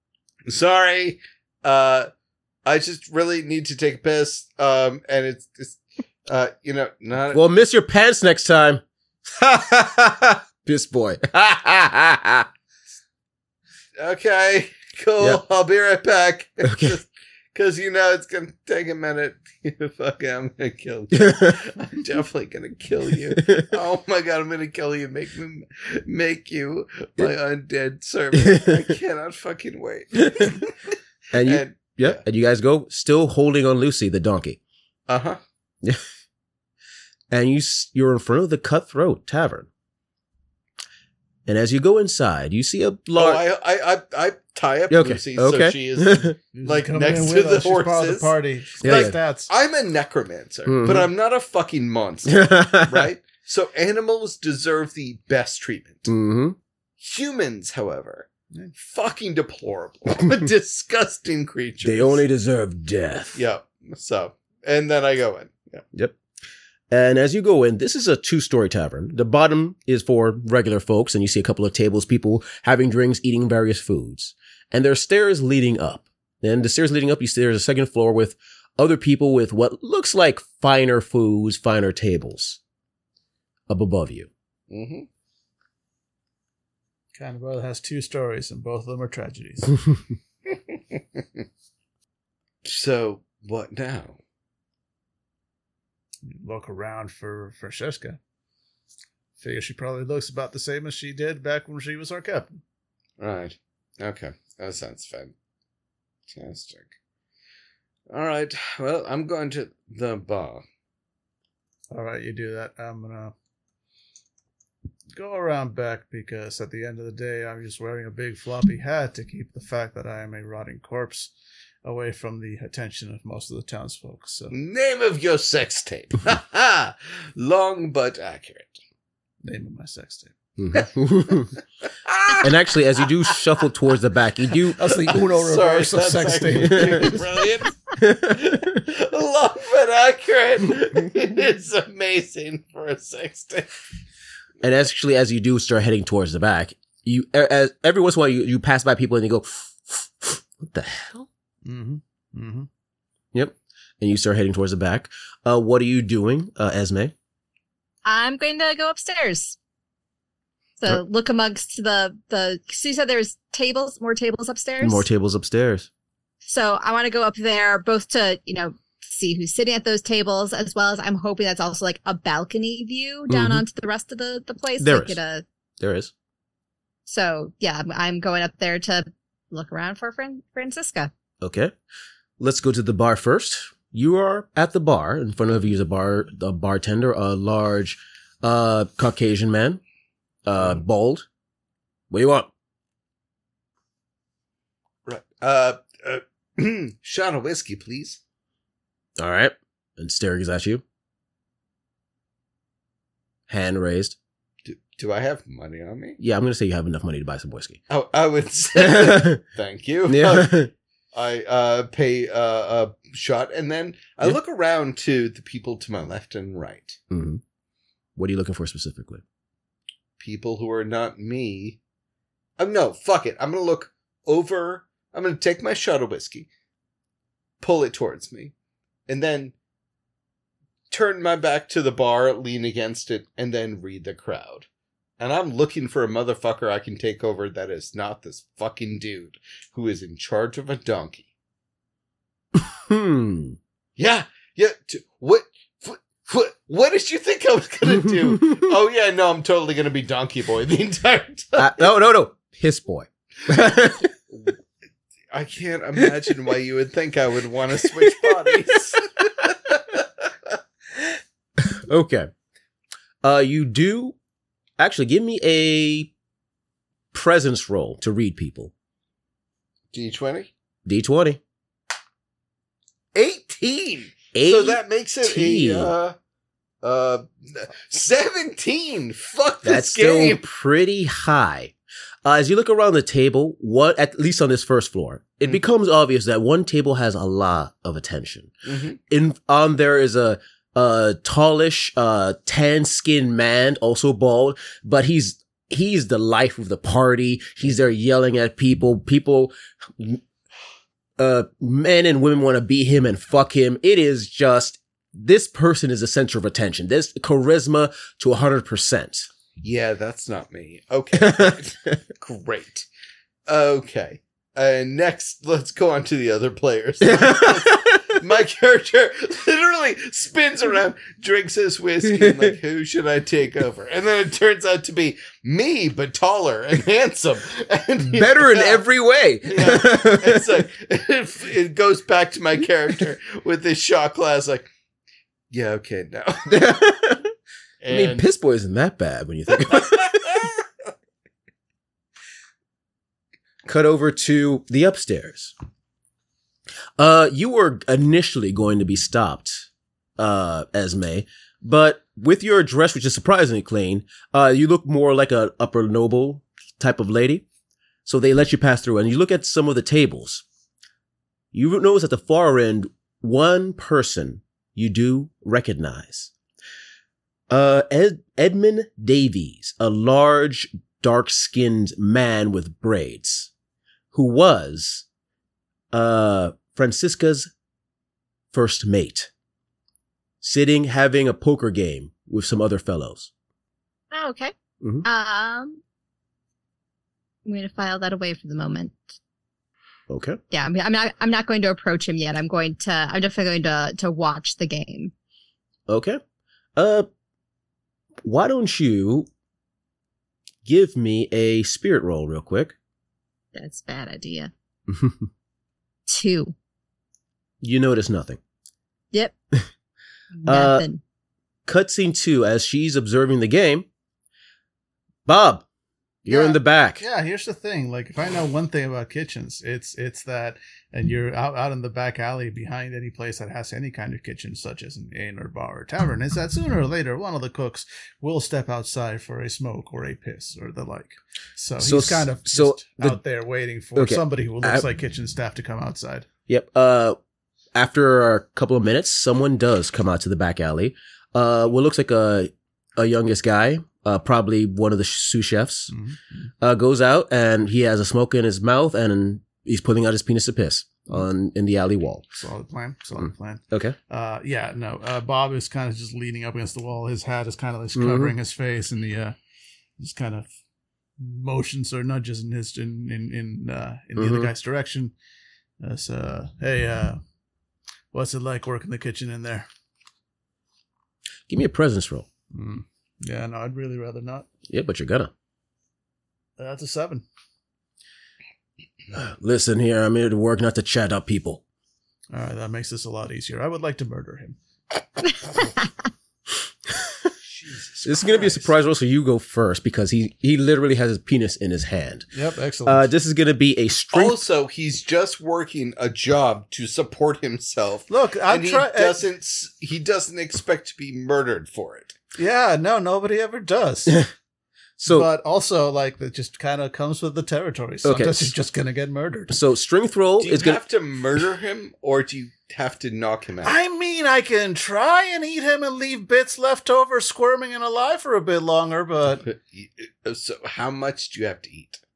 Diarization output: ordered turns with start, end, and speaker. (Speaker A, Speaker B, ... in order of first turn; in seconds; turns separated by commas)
Speaker A: 0.5-2.1, Speaker A: 2.6-7.4, Speaker B: 7.3-12.5, Speaker A: 14.0-32.2, Speaker B: 16.6-17.0, Speaker B: 21.1-21.6, Speaker B: 23.4-23.6, Speaker B: 28.4-28.7, Speaker B: 31.3-34.6, Speaker A: 35.1-35.4, Speaker B: 37.3-39.7, Speaker B: 41.5-43.4, Speaker A: 43.1-56.1, Speaker B: 44.9-46.4, Speaker C: 46.5-49.5, Speaker B: 48.8-49.2, Speaker B: 50.7-51.1, Speaker B: 52.3-53.1, Speaker B: 56.1-56.6, Speaker A: 57.0-62.2, Speaker B: 61.8-63.4, Speaker A: 63.4-65.8, Speaker B: 66.9-82.6, Speaker B: 83.7-84.3, Speaker A: 84.7-85.1, Speaker C: 87.2-89.9, Speaker A: 90.5-91.2, Speaker A: 92.6-94.2, Speaker C: 96.2-98.2, Speaker C: 99.4-102.6, Speaker A: 103.2-105.3, Speaker A: 106.3-106.9, Speaker A: 108.1-110.7, Speaker C: 111.9-113.3, Speaker C: 115.1-121.3, Speaker C: 121.8-124.5, Speaker A: 124.5-128.8, Speaker C: 129.4-130.3, Speaker B: 130.6-131.5, Speaker A: 131.8-132.5, Speaker B: 132.4-135.1, Speaker C: 134.8-137.2, Speaker A: 135.1-143.7, Speaker B: 138.0-138.8, Speaker B: 144.6-151.3, Speaker C: 151.7-152.7, Speaker B: 153.3-157.1, Speaker D: 158.1-159.6, Speaker D: 160.8-165.1, Speaker B: 164.8-165.9, Speaker D: 166.4-175.4, Speaker B: 173.3-173.6, Speaker B: 174.8-175.2, Speaker B: 175.8-176.1, Speaker D: 177.1-181.1, Speaker B: 181.4-181.7, Speaker B: 182.4-189.8, Speaker B: 190.4-191.3, Speaker A: 190.6-190.8, Speaker B: 192.1-192.5, Speaker A: 195.1-198.2, Speaker B: 199.2-200.8, Speaker B: 203.5-204.2, Speaker A: 204.7-206.2, Speaker B: 206.2-207.8, Speaker A: 207.9-210.6, Speaker B: 208.8-209.4, Speaker B: 210.1-210.7, Speaker A: 211.1-217.0, Speaker B: 217.1-217.4, Speaker B: 218.2-219.2, Speaker A: 220.2-221.8, Speaker A: 222.6-226.5, Speaker A: 227.6-228.5, Speaker A: 229.1-229.5, Speaker A: 230.9-234.7, Speaker A: 235.2-241.3, Speaker B: 242.6-243.6, Speaker A: 244.0-251.8, Speaker B: 248.0-248.7, Speaker B: 251.6-254.1, Speaker A: 254.3-254.6, Speaker A: 255.3-260.6, Speaker B: 258.0-259.0, Speaker B: 261.7-262.3, Speaker B: 263.2-264.2, Speaker B: 264.8-266.1, Speaker B: 267.1-268.7, Speaker A: 269.9-270.5, Speaker B: 270.9-271.4, Speaker A: 273.1-276.2, Speaker B: 274.3-275.9, Speaker A: 276.8-280.4, Speaker B: 279.6-281.7, Speaker B: 282.2-288.5, Speaker A: 288.7-289.0, Speaker B: 289.1-300.2, Speaker B: 301.2-309.3, Speaker A: 309.6-312.9, Speaker B: 311.2-312.0, Speaker A: 313.5-328.8, Speaker B: 317.1-318.1, Speaker B: 328.1-330.5, Speaker A: 329.5-334.7, Speaker A: 335.5-336.8, Speaker B: 336.5-337.3, Speaker A: 337.8-338.2, Speaker B: 337.9-340.4, Speaker A: 339.7-340.6, Speaker B: 343.7-345.5, Speaker B: 347.0-357.4, Speaker B: 358.1-360.4, Speaker B: 361.5-366.3, Speaker B: 367.5-373.5, Speaker B: 374.1-375.1, Speaker B: 375.9-377.5, Speaker B: 378.5-379.3, Speaker B: 380.4-383.3, Speaker D: 384.1-384.5, Speaker D: 385.0-385.8, Speaker D: 387.4-389.1, Speaker B: 390.1-390.4, Speaker D: 390.5-395.1, Speaker B: 395.9-396.2, Speaker B: 396.8-397.1, Speaker B: 398.2-399.3, Speaker B: 400.6-402.8, Speaker D: 403.6-404.5, Speaker B: 404.9-405.3, Speaker D: 406.1-406.5, Speaker B: 407.6-408.4, Speaker D: 410.4-411.0, Speaker B: 410.4-410.9, Speaker B: 411.7-413.9, Speaker B: 415.3-415.6, Speaker B: 416.2-417.0, Speaker C: 416.3-436.3, Speaker B: 431.8-433.2, Speaker B: 433.9-434.9, Speaker B: 436.5-437.2, Speaker B: 437.8-445.9, Speaker C: 445.9-446.2, Speaker B: 446.6-452.2, Speaker C: 452.3-459.4, Speaker B: 453.2-454.0, Speaker B: 457.9-458.4, Speaker C: 460.0-460.5, Speaker C: 461.2-465.1, Speaker B: 464.2-464.5, Speaker C: 465.8-467.2, Speaker C: 468.1-469.7, Speaker B: 471.5-472.3, Speaker C: 472.5-474.5, Speaker B: 474.7-475.3, Speaker C: 476.6-477.2, Speaker B: 479.1-481.6, Speaker C: 482.3-484.6, Speaker A: 487.4-488.7, Speaker B: 488.0-492.3, Speaker C: 492.3-493.1, Speaker B: 492.9-494.4, Speaker A: 494.1-502.2, Speaker C: 498.1-499.2, Speaker C: 502.4-504.2, Speaker B: 505.0-505.3, Speaker C: 505.1-509.6, Speaker B: 508.0-508.5, Speaker B: 509.5-510.8, Speaker A: 510.4-513.8, Speaker C: 513.6-519.5, Speaker A: 519.4-522.0